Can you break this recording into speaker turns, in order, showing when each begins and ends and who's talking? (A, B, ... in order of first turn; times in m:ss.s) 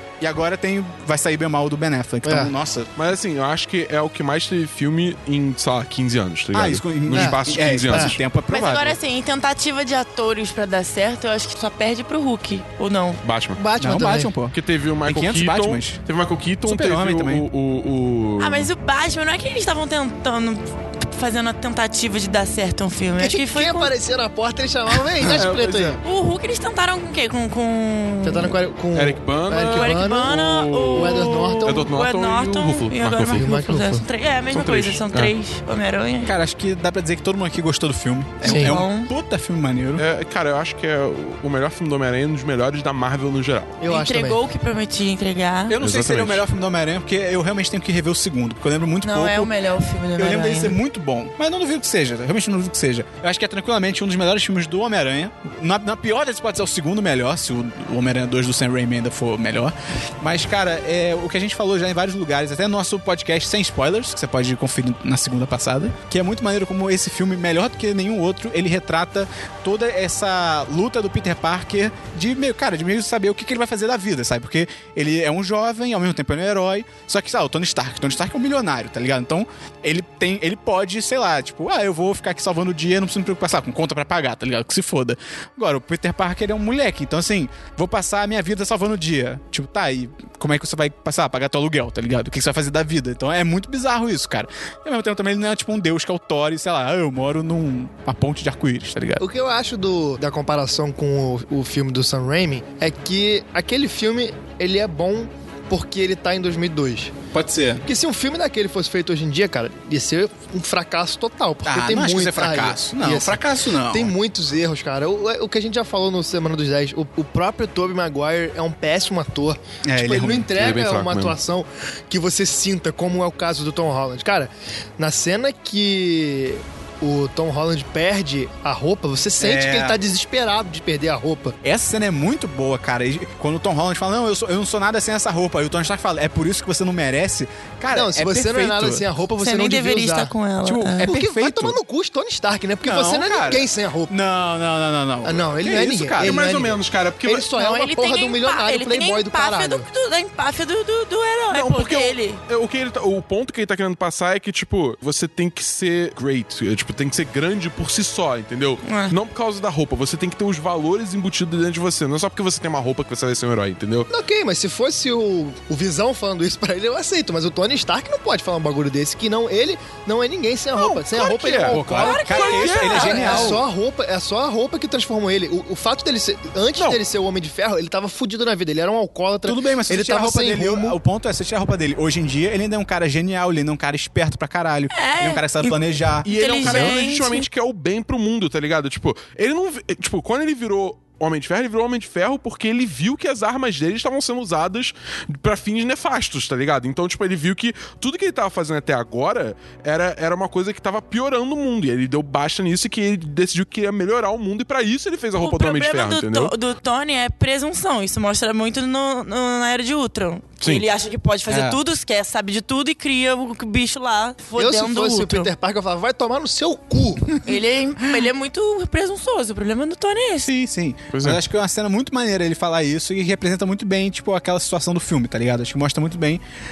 0:00.2-0:02.9 A
0:02.2-0:02.5 B
0:03.0-0:08.2 C
0:06.5-0:09.0 A
0:07.9-0:08.2 B
0:08.5-0:13.2 D
0:13.2-0:13.6 C
0:13.6-0:14.3 B
0:13.8-0:16.0 A
0:14.5-0:18.7 C
0:16.6-0:17.5 A
0:18.4-0:23.9 D
0:23.2-0:26.0 B
0:25.2-0:25.9 A
0:25.4-0:26.0 C
0:26.0-0:28.6 D
0:28.2-0:30.4 B
0:28.9-0:33.5 C
0:29.6-0:36.3 D
0:30.9-0:31.9 B
0:33.3-0:34.0 B
0:34.5-0:35.3 C
0:36.2-0:40.0 A
0:38.4-0:38.8 B
0:38.4-0:39.1 D
0:40.0-0:43.8 C
0:43.8-0:44.4 B
0:43.9-0:45.8 D
0:45.7-0:49.5 A
0:45.8-0:46.4 C
0:49.0-0:50.8 D
0:50.2-1:39.2 A
1:39.2-1:47.1 B
1:47.3-1:47.8 A
1:47.9-2:11.6 B
1:51.6-1:54.1 A
1:59.8-2:00.5 A
2:00.6-2:01.4 C
2:09.4-2:10.0 A
2:11.6-2:19.1 A
2:17.9-2:20.3 B
2:19.4-2:21.1 D
2:20.6-2:21.8 A
2:21.0-2:24.2 B
2:22.8-2:26.4 A
2:25.2-2:29.9 B
2:25.6-2:27.5 C
2:27.6-2:32.4 D
2:31.5-2:44.1 C
2:38.8-2:39.1 D
2:44.1-3:01.0 B
2:50.7-2:53.5 C
2:51.7-2:53.6 A
2:51.9-2:53.6 D
2:59.4-3:06.9 A
3:04.9-3:07.4 D
3:06.2-3:26.5 C
3:25.4-3:35.5 D
3:31.5-3:31.8 A
3:34.6-3:37.5 B
3:37.4-3:40.5 D
3:40.4-3:46.4 A
3:41.1-3:41.4 C